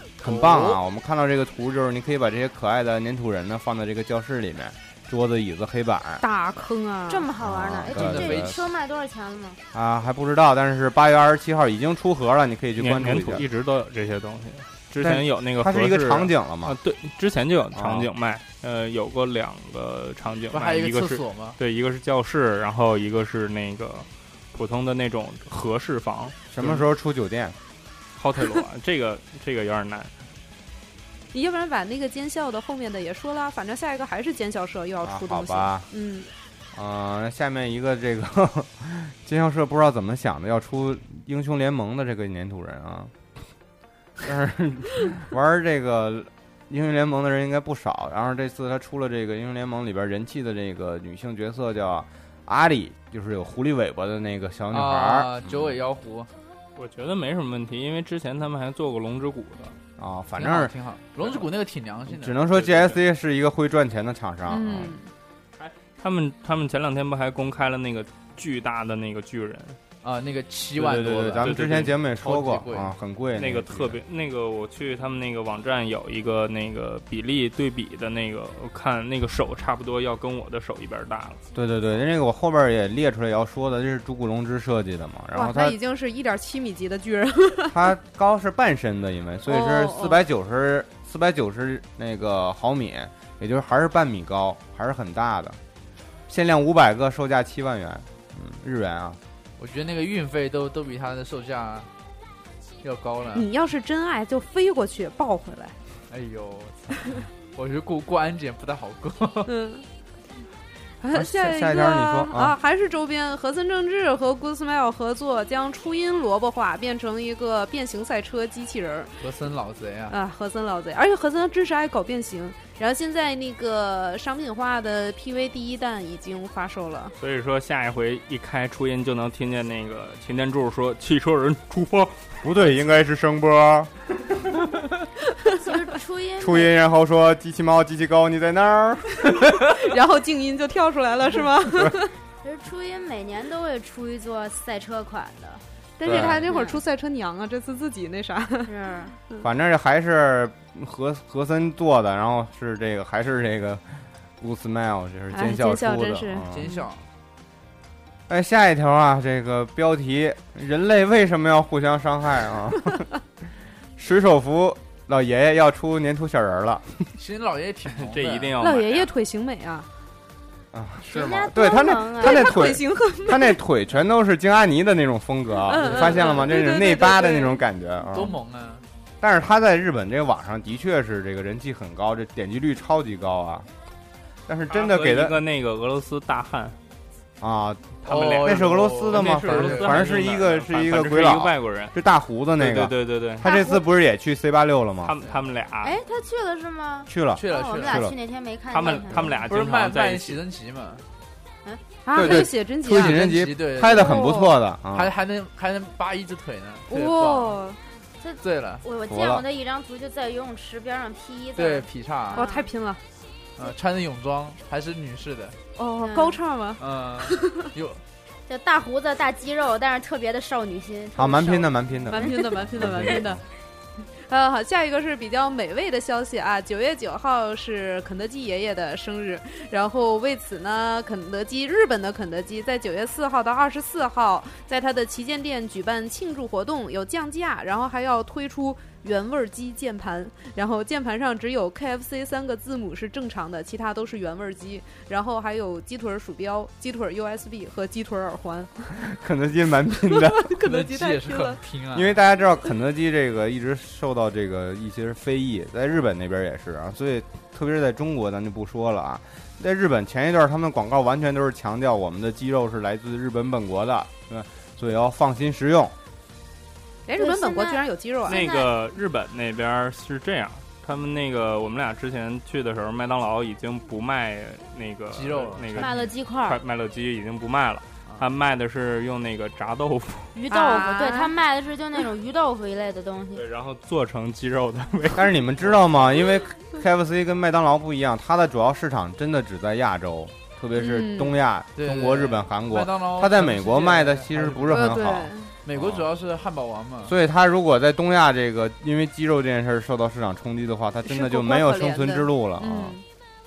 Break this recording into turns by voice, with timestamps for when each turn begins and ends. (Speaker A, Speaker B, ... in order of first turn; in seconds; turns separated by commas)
Speaker A: 0.2-6.2, Speaker B: 0.2-0.8, Speaker C: 6.2-7.3, Speaker D: 7.1-9.6, Speaker A: 7.4-8.6, Speaker B: 7.9-8.5, Speaker A: 9.7-13.4, Speaker E: 12.8-26.4, Speaker A: 15.0-16.8, Speaker A: 17.7-18.1, Speaker B: 20.5-21.6, Speaker A: 26.5-27.6, Speaker E: 28.2-30.1, Speaker C: 31.3-36.3, Speaker A: 35.0-35.9, Speaker A: 36.7-43.1, Speaker A: 44.2-55.8, Speaker B: 54.7-56.3, Speaker E: 56.8-59.8, Speaker A: 60.0-60.7, Speaker B: 60.4-62.8, Speaker A: 62.1-65.0, Speaker C: 64.5-65.1, Speaker E: 65.6-69.8, Speaker B: 70.0-72.9, Speaker A: 70.8-74.0, Speaker E: 71.4-71.9, Speaker E: 73.3-81.4, Speaker A: 81.5-85.8, Speaker C: 85.3-87.8, Speaker A: 87.7-95.6, Speaker C: 89.5-90.2, Speaker A: 96.3-99.2, Speaker B: 99.6-101.9, Speaker B: 102.8-103.5, Speaker C: 103.3-105.8, Speaker B: 106.1-109.5, Speaker C: 109.5-109.8, Speaker C: 111.0-119.1, Speaker A: 111.1-112.6, Speaker B: 119.2-120.2, Speaker C: 120.1-127.2, Speaker E: 127.2-132.5, Speaker A: 132.4-133.9, Speaker C: 135.4-135.7, Speaker D: 135.6-136.7, Speaker A: 136.4-139.5, Speaker C: 139.7-142.1, Speaker D: 142.4-146.8, Speaker C: 146.0-148.7, Speaker A: 146.0-146.5, Speaker D: 148.6-149.1, Speaker A: 149.4-153.8, Speaker A: 154.4-156.7, Speaker C: 155.3-156.8, Speaker B: 156.5-157.0, Speaker A: 158.3-163.0, Speaker A: 163.9-167.0, Speaker B: 167.2-168.6, Speaker E: 167.9-169.1, Speaker C: 168.6-169.9, Speaker A: 170.7-178.3, Speaker D: 171.1-172.7, Speaker C: 172.2-173.6, Speaker C: 175.6-177.6, Speaker B: 175.7-176.4, Speaker B: 178.1-178.8, Speaker A: 179.2-183.7, Speaker A: 184.5-185.4, Speaker E: 184.7-186.8, Speaker A: 187.4-195.1, Speaker E: 188.0-191.9, Speaker B: 188.1-190.0, Speaker E: 192.6-193.4, Speaker C: 193.4-193.8, Speaker E: 195.0-196.0, Speaker D: 195.8-199.3, Speaker A: 197.1-198.1, Speaker B: 197.4-198.0, Speaker E: 198.7-200.4, Speaker B: 199.2-201.0, Speaker C: 202.0-203.2, Speaker A: 202.1-205.1, Speaker B: 202.2-204.3, Speaker C: 203.9-204.5, Speaker B: 204.9-207.6, Speaker C: 206.9-207.8, Speaker D: 208.2-212.7, Speaker B: 208.4-208.8, Speaker A: 209.1-209.4, Speaker B: 211.6-212.4, Speaker C: 212.3-213.0, Speaker B: 213.6-215.6, Speaker C: 215.8-217.6, Speaker D: 216.0-216.4, Speaker B: 216.8-218.0, Speaker D: 218.5-222.5, Speaker A: 221.1-223.4, Speaker C: 222.1-223.4, Speaker C: 224.0-249.0, Speaker A: 248.9-250.5, Speaker C: 250.1-251.6, Speaker B: 250.6-252.2, Speaker A: 251.9-265.9, Speaker C: 267.1-268.4, Speaker D: 267.2-268.7, Speaker E: 268.3-280.4, Speaker B: 275.1-276.0, Speaker D: 275.7-276.6, Speaker D: 280.3-283.4, Speaker C: 280.5-281.3, Speaker E: 283.3-285.3, Speaker A: 285.1-296.1, Speaker C: 290.8-291.4, Speaker B: 291.8-294.9, Speaker C: 294.7-295.5, Speaker B: 295.6-297.1, Speaker A: 297.0-303.0, Speaker C: 301.1-303.0